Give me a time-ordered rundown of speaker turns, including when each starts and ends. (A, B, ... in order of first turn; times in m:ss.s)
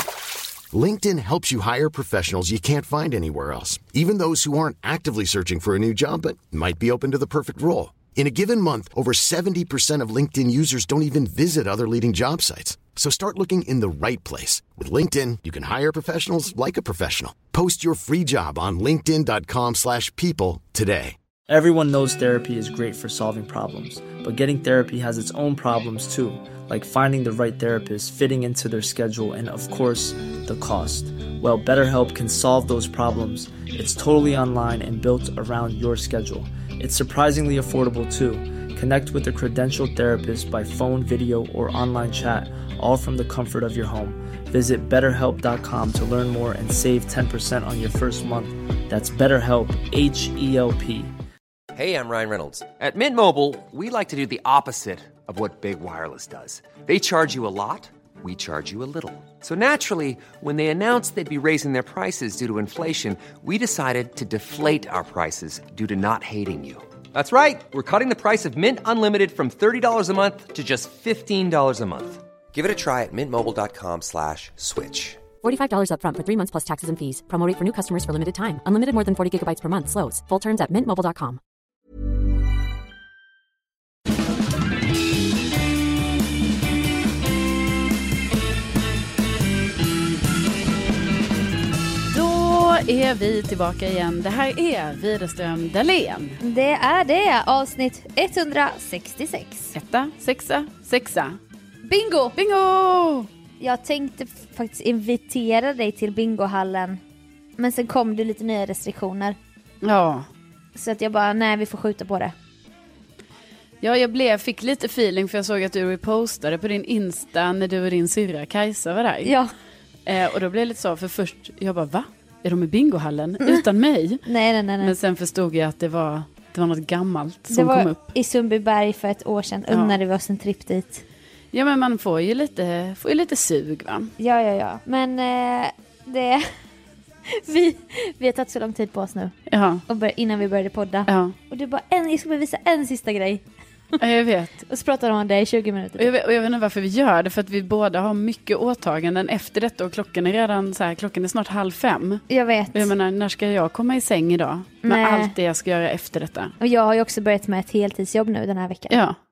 0:00.7-0:21.2 A
0:21.5-0:51.1 B
0:51.7-1:15.2 C
1:15.4-1:21.4 D
1:32.1-1:36.4 E
1:36.4-1:39.7 F
1:39.7-1:41.4 E
1:41.8-1:42.4 F
1:42.4-1:43.3 E
1:43.6-1:47.0 F
1:47.6-1:49.4 F
1:49.8-1:50.3 E
1:50.7-1:52.3 F
1:53.8-1:59.3 E
1:59.2-1:59.5 F
2:00.0-2:04.2 E
2:04.2-2:04.9 F
2:04.8-2:08.0 E
2:07.5-2:11.0 F
2:09.7-2:10.0 E
2:11.5-2:14.1 E
2:14.2-2:16.5 F
2:17.3-2:19.3 F
2:19.5-2:19.8 E
2:19.9-2:23.4 F
2:21.1-2:21.4 E
2:24.0-2:24.6 E
2:24.7-2:26.1 F
2:26.0-2:36.6 E
2:32.3-2:32.9 F
2:34.8-2:35.3 F
2:36.6-2:39.0 F
2:38.9-2:39.2 E